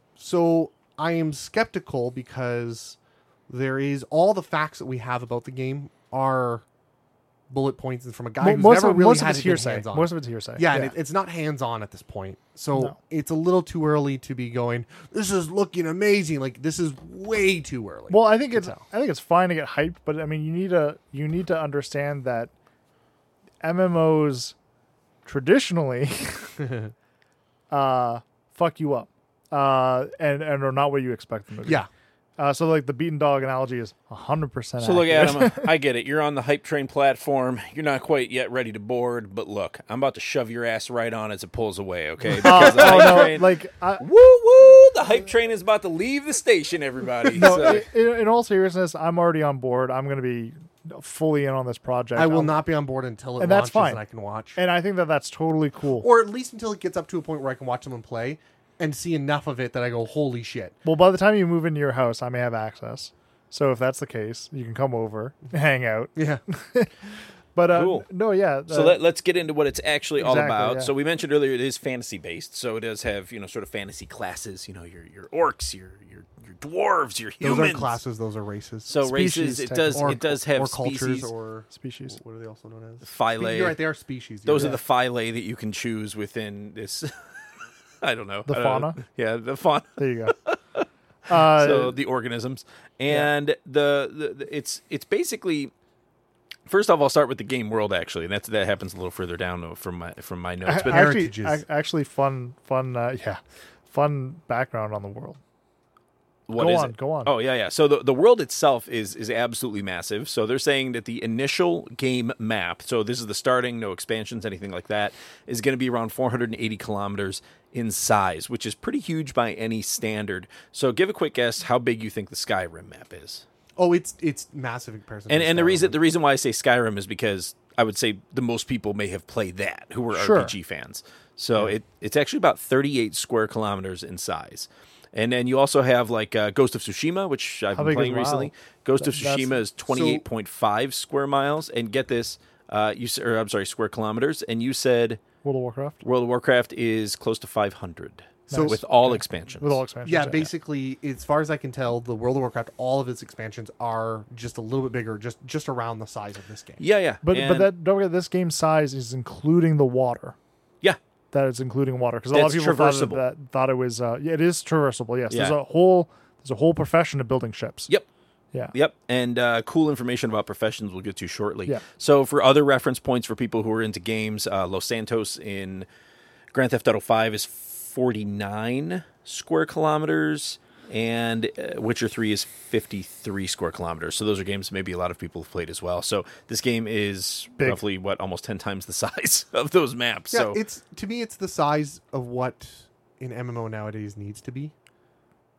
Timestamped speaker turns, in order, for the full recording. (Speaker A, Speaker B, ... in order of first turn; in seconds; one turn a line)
Speaker A: 0.2-3.0
Speaker A: 3.5-6.7
Speaker A: 7.5-18.8
Speaker B: 8.4-10.9
Speaker B: 18.1-22.5
Speaker B: 23.6-24.5
Speaker B: 25.3-26.6
Speaker B: 27.7-31.9
Speaker B: 32.4-35.8
Speaker C: 34.8-47.8
Speaker B: 42.4-44.0
Speaker A: 42.5-43.3
Speaker B: 47.3-52.6
Speaker A: 47.4-47.8
Speaker A: 52.2-54.6
Speaker B: 53.4-54.0
Speaker B: 54.6-56.1
Speaker A: 56.0-60.8
Speaker B: 60.9-66.9
Speaker A: 66.2-66.4
Speaker B: 67.5-69.0
Speaker C: 67.7-68.1
Speaker C: 68.7-78.0
Speaker B: 70.2-70.9
Speaker A: 77.4-79.0
Speaker C: 78.9-81.3
Speaker B: 79.0-80.2
Speaker A: 79.9-84.8
Speaker B: 81.7-82.2
Speaker C: 83.0-83.8
Speaker C: 84.5-87.1
Speaker C: 88.0-95.7
Speaker B: 88.5-89.0
Speaker B: 90.0-90.4
Speaker B: 91.3-92.0
Speaker C: 96.7-101.1
Speaker B: 100.7-105.4
Speaker A: 100.8-101.6
Speaker C: 106.5-123.5
Speaker B: 106.6-107.3
Speaker A: 123.8-126.0
Speaker C: 125.3-145.2
Speaker B: 130.1-130.5
Speaker B: 137.7-139.6
Speaker A: 139.9-140.2
Speaker B: 145.4-146.0
Speaker C: 146.0-149.8
Speaker B: 148.5-150.5
Speaker A: 148.5-148.8
Speaker A: 150.1-156.8
Speaker C: 156.8-157.7
Speaker B: 157.2-160.4
Speaker B: 161.3-167.9
Speaker C: 162.3-163.2
Speaker C: 165.3-165.6
Speaker C: 168.7-175.9
Speaker C: 176.5-190.6
Speaker A: 190.3-194.7